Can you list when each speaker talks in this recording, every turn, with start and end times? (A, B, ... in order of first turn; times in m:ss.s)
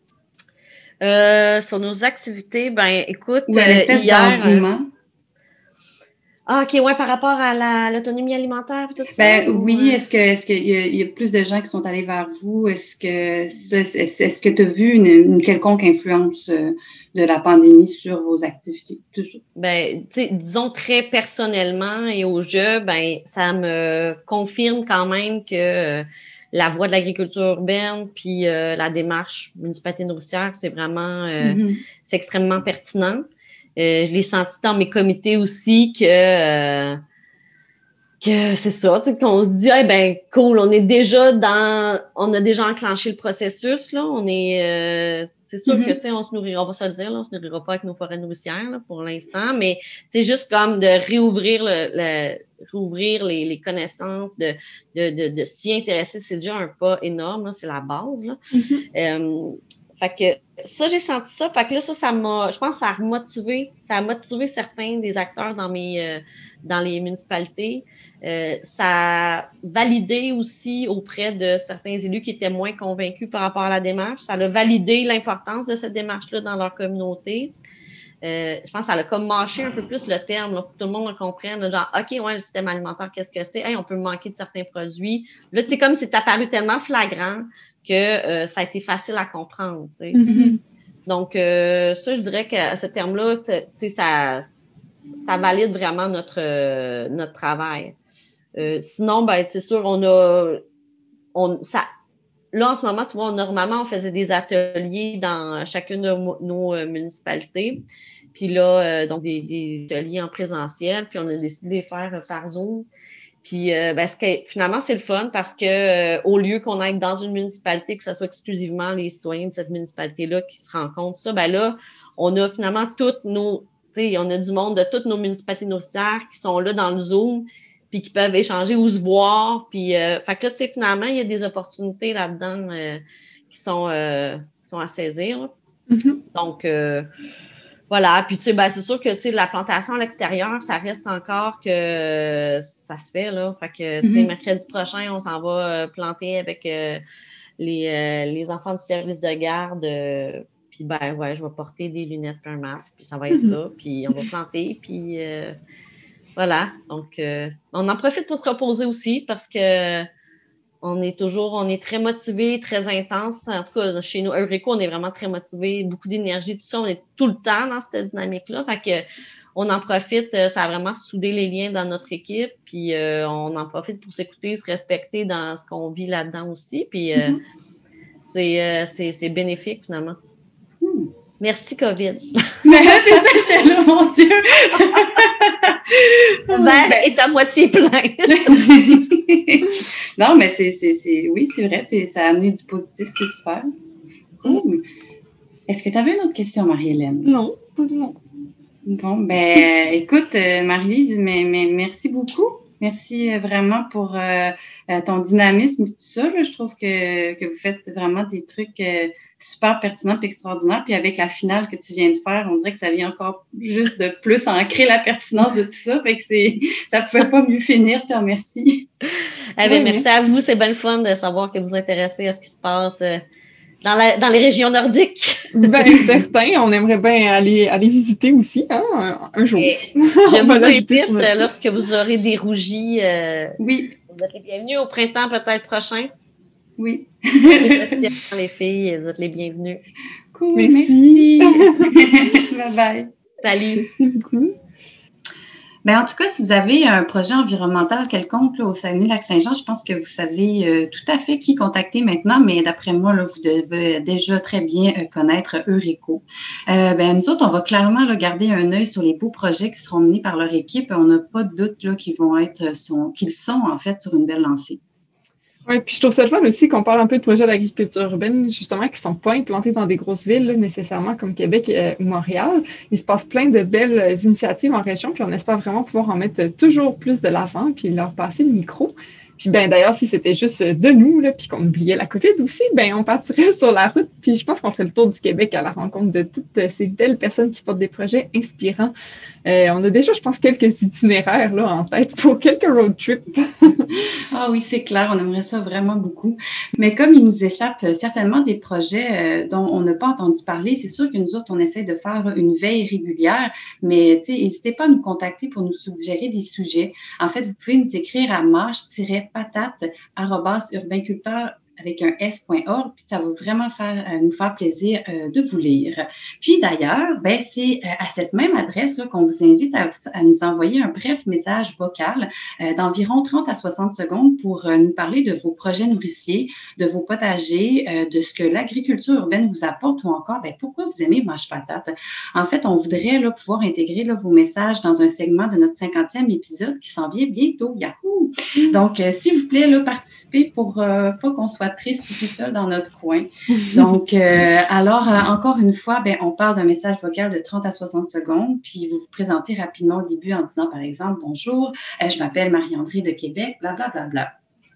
0:01.0-0:04.7 A
0:03.5-0:04.9 B
0:06.5-0:10.0 A
0:09.2-0:19.4 B
0:19.6-0:37.0 A
0:31.4-0:31.8 B
0:38.2-0:58.4 A
0:45.7-0:46.0 B
0:58.5-0:58.8 C
0:58.9-1:17.5 A
1:18.2-1:30.2 A
1:30.1-1:30.6 C
1:30.3-1:30.6 B
1:31.1-1:34.6 A
1:35.2-1:38.0 A
1:38.6-1:40.6 A
1:41.3-1:41.9 A
1:42.5-1:47.8 A
1:48.3-1:52.9 A
1:53.4-2:15.5 A
2:15.9-2:16.2 C
2:16.3-2:17.1 A
2:17.9-2:27.0 A
2:24.0-2:24.3 B
2:27.6-2:35.6 A
2:33.3-2:33.6 C
2:36.4-2:40.1 A
2:40.8-2:57.4 A
2:58.2-3:00.2 A
3:00.8-3:01.1 B
3:01.4-3:03.2 A
3:02.6-3:07.1 B
3:06.5-3:08.7 A
3:08.3-3:13.6 B
3:14.4-3:14.8 B
3:15.7-3:17.3 B
3:17.2-3:18.2 C
3:18.8-3:38.9 B
3:39.2-3:43.2 A
3:39.6-3:40.0 C
3:43.8-3:45.6 A
3:45.6-3:51.5 C
3:49.6-3:53.6 A
3:53.6-3:54.0 B
3:54.1-3:56.1 A
3:56.8-3:58.1 B
3:57.5-3:59.8 A
4:00.3-4:03.1 B
4:00.6-4:02.1 C
4:03.4-4:03.9 A
4:04.0-4:04.5 C
4:05.8-4:24.8 B
4:25.7-4:48.9 C
4:49.4-4:54.0 C
4:54.3-5:54.3 B